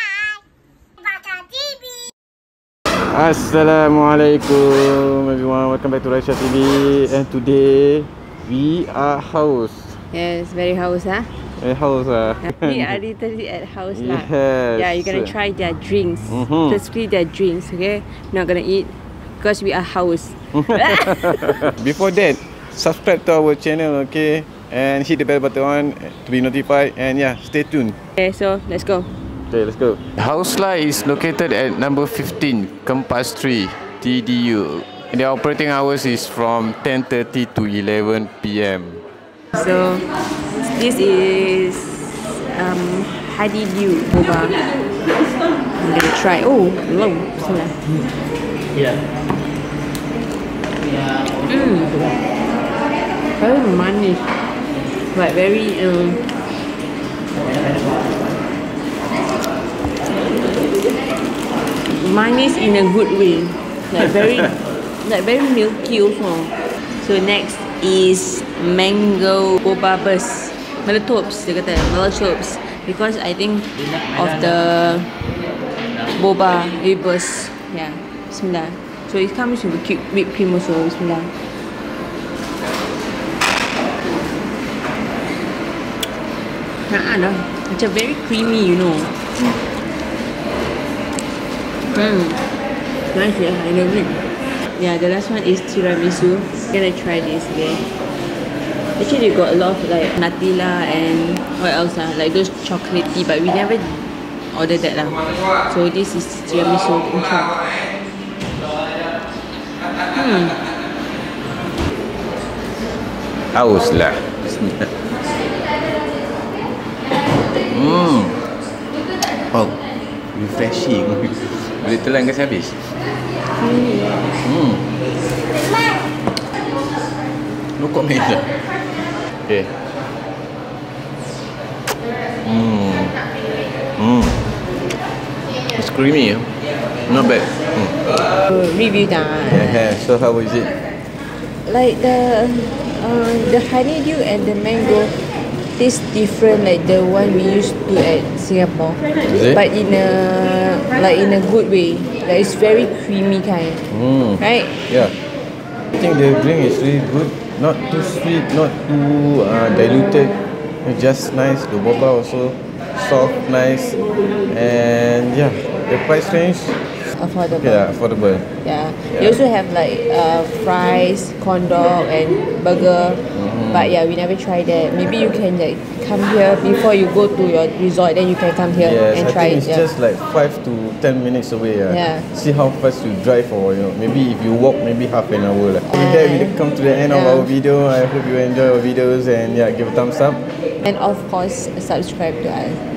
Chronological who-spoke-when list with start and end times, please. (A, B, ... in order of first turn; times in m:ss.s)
0:02.9-0:10.0 A
0:10.1-0:11.3 B
0:11.6-0:13.0 A
0:12.4-0:21.7 B
0:13.9-0:15.3 A
0:16.3-0:16.8 A
0:20.5-0:28.0 A
0:28.2-0:29.1 B
0:29.5-0:39.0 A
0:39.5-0:40.1 B
0:40.6-0:44.6 B
0:45.8-0:47.8 B
0:51.4-0:52.0 B
0:53.4-0:54.3 B
0:55.1-0:56.2 B
1:01.9-1:15.1 B
1:16.1-1:21.3 B
1:26.9-1:29.1 B
1:31.9-1:32.4 B
1:33.1-1:34.2 B
1:34.7-1:37.8 B
1:39.0-1:47.6 B
1:50.1-1:50.6 B
1:53.5-1:54.9 A
1:57.6-1:58.4 A
1:59.5-1:59.8 A
2:00.3-2:02.9 A
2:03.6-2:04.3 B
2:04.4-2:04.9 A
2:07.8-2:08.5 A
2:12.4-2:13.2 A
2:14.0-2:14.4 A
2:15.7-2:16.5 A
2:17.1-2:18.1 A
2:18.5-2:19.9 B
2:19.5-2:20.7 A
2:21.6-2:25.2 B
2:25.8-2:33.9 B
2:29.2-2:29.6 A
2:33.9-2:35.1 A
2:34.4-2:34.8 B
2:35.9-2:46.8 A
2:47.1-2:47.8 B
2:47.6-2:48.5 A
2:48.6-2:59.8 B
2:53.3-2:53.9 A
2:58.8-3:10.4 A
3:01.9-3:02.2 B
3:05.9-3:06.6 B
3:07.1-3:07.5 B
3:10.8-3:12.8 B